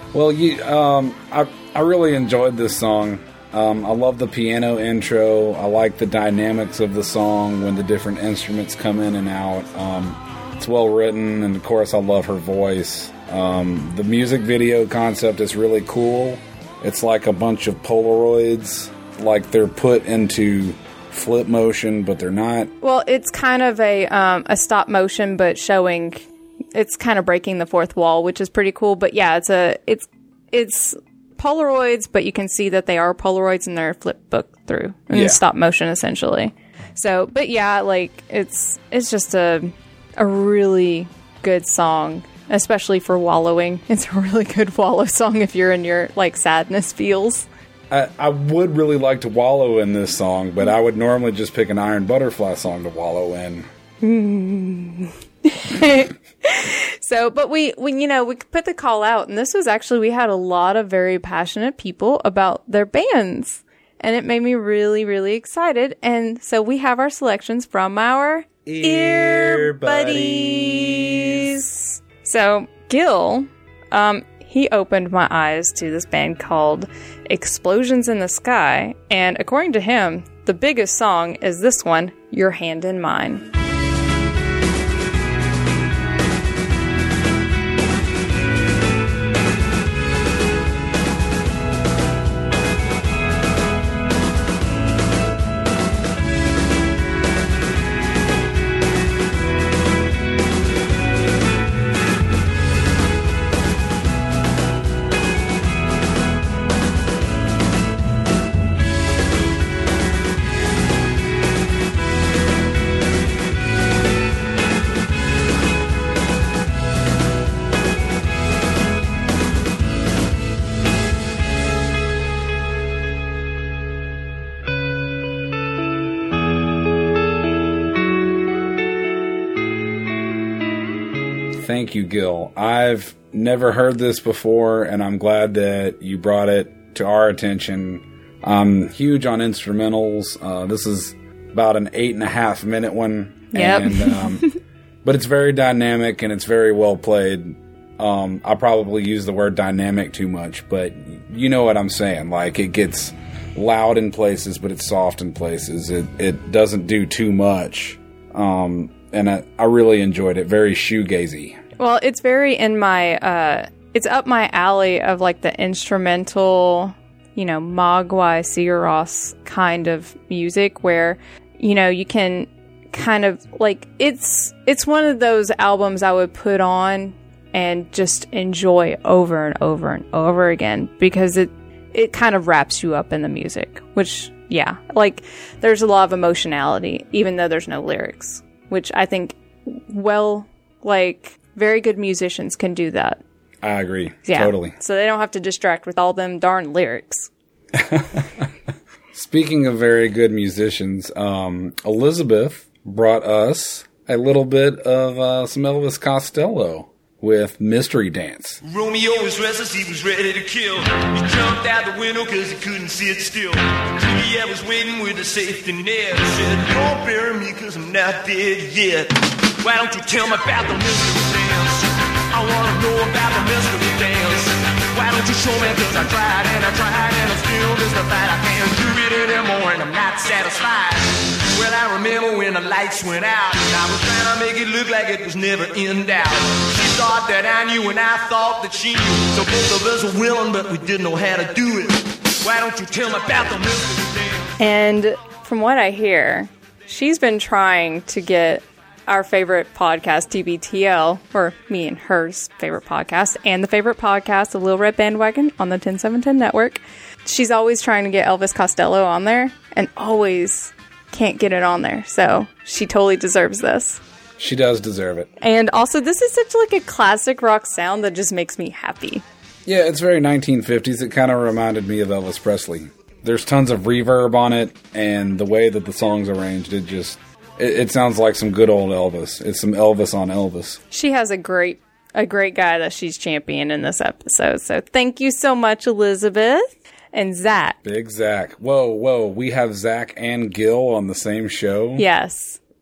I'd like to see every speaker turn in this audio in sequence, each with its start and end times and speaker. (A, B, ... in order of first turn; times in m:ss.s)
0:00.1-0:22.7 A
0:22.8-0:47.5 B
0:35.1-0:35.4 A
0:47.9-0:53.7 A
0:54.0-1:23.4 B
1:08.6-1:11.5 A
2:11.6-2:24.5 A
2:23.5-2:24.6 B
2:25.0-2:41.6 A
2:41.8-3:13.2 B
3:13.6-3:14.8 A
3:14.3-3:17.3 B
3:17.7-3:18.5 A
3:19.1-3:28.6 A
3:28.6-4:04.5 C
4:04.6-4:24.0 B
4:24.4-4:25.3 A
4:25.4-4:29.2 B
4:29.7-4:40.8 A
4:40.9-4:47.8 B
4:47.8-4:52.0 A
4:52.0-4:52.6 B